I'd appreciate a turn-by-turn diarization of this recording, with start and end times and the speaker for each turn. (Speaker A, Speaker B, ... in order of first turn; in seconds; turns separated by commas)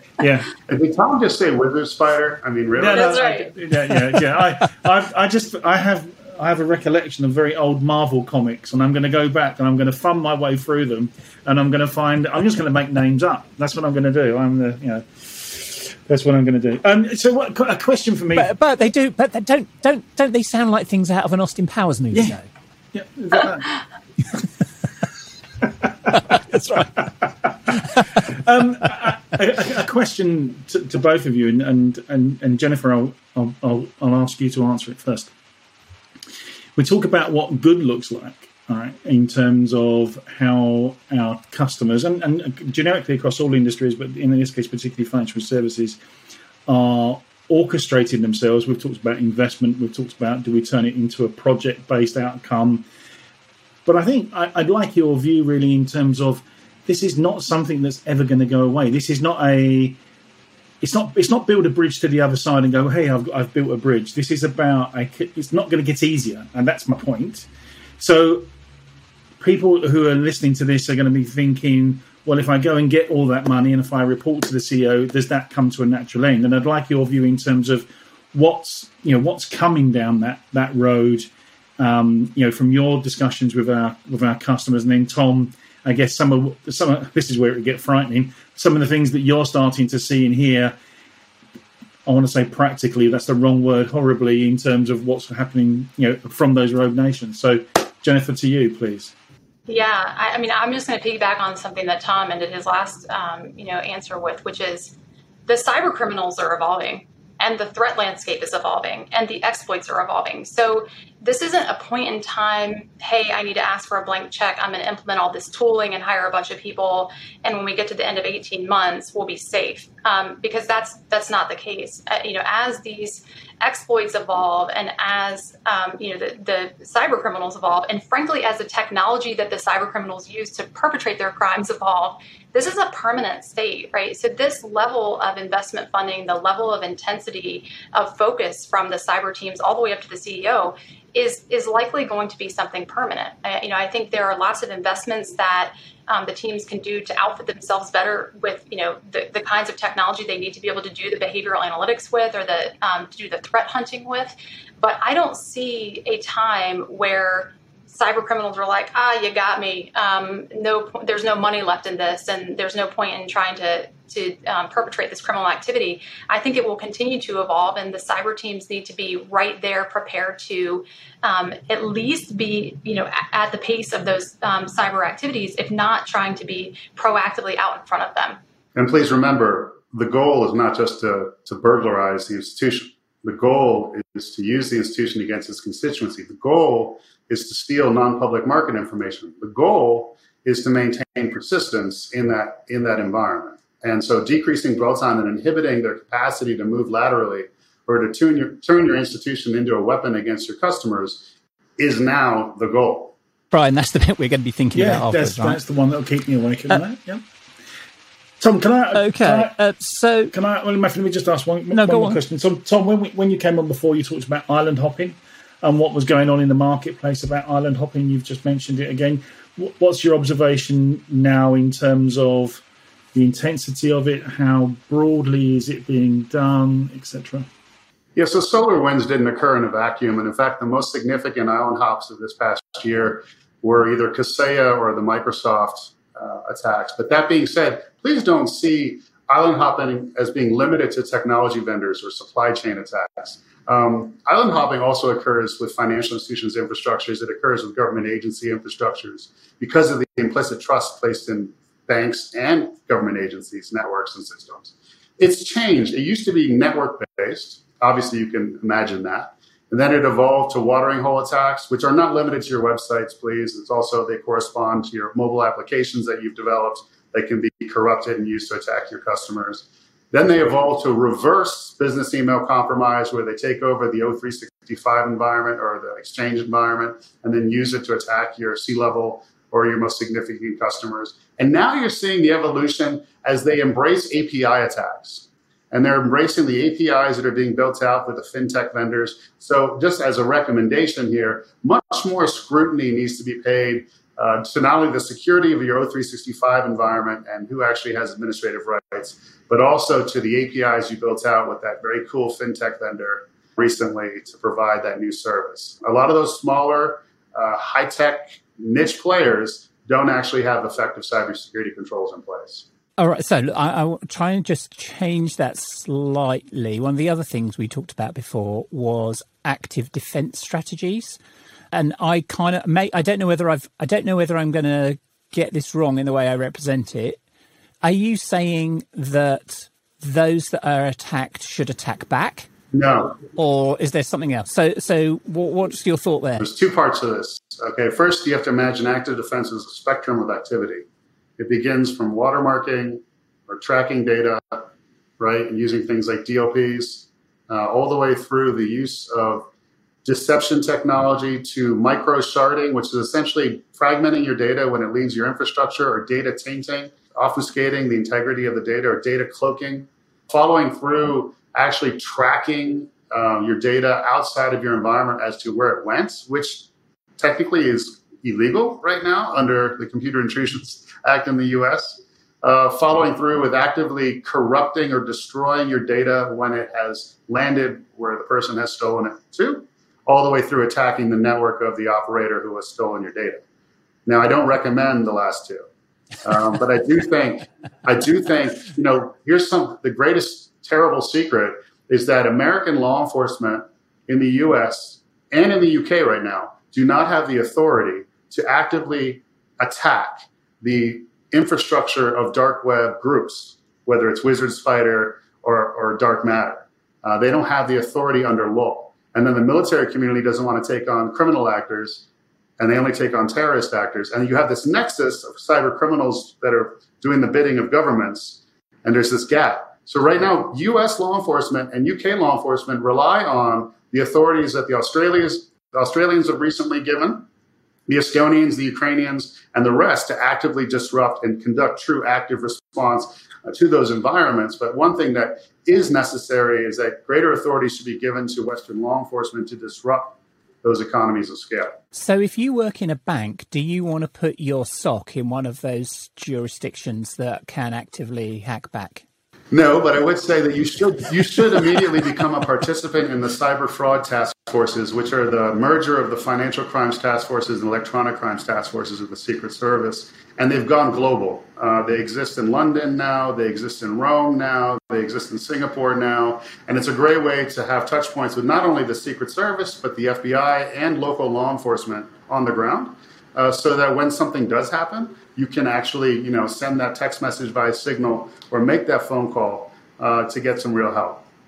Speaker A: 0.2-0.5, Speaker B: 0.7-3.3, Speaker A: 2.8-18.5, Speaker C: 2.9-3.5, Speaker D: 18.3-22.4, Speaker A: 22.9-23.8, Speaker A: 25.6-35.3, Speaker A: 36.8-46.0, Speaker A: 46.7-52.9, Speaker A: 53.9-60.0, Speaker A: 60.8-67.5, Speaker A: 68.0-68.5, Speaker A: 69.4-90.8, Speaker A: 92.0-99.1, Speaker C: 99.7-104.9, Speaker C: 105.5-178.4, Speaker B: 178.7-203.1, Speaker D: 203.5-205.6, Speaker A: 204.7-207.2, Speaker A: 208.4-209.5, Speaker D: 208.9-210.3, Speaker A: 210.3-222.6, Speaker D: 211.7-212.2, Speaker A: 223.1-227.5, Speaker B: 228.2-312.6, Speaker D: 313.0-321.2, Speaker D: 321.7-327.2, Speaker D: 327.8-332.5, Speaker B: 332.7-333.2, Speaker D: 333.4-336.4, Speaker B: 336.4-340.9, Speaker B: 341.4-349.5, Speaker B: 350.0-383.4, Speaker B: 384.1-385.6, Speaker B: 386.2-412.1, Speaker B: 412.6-427.3, Speaker B: 427.9-441.8, Speaker D: 441.9-449.0, Speaker B: 449.5-481.2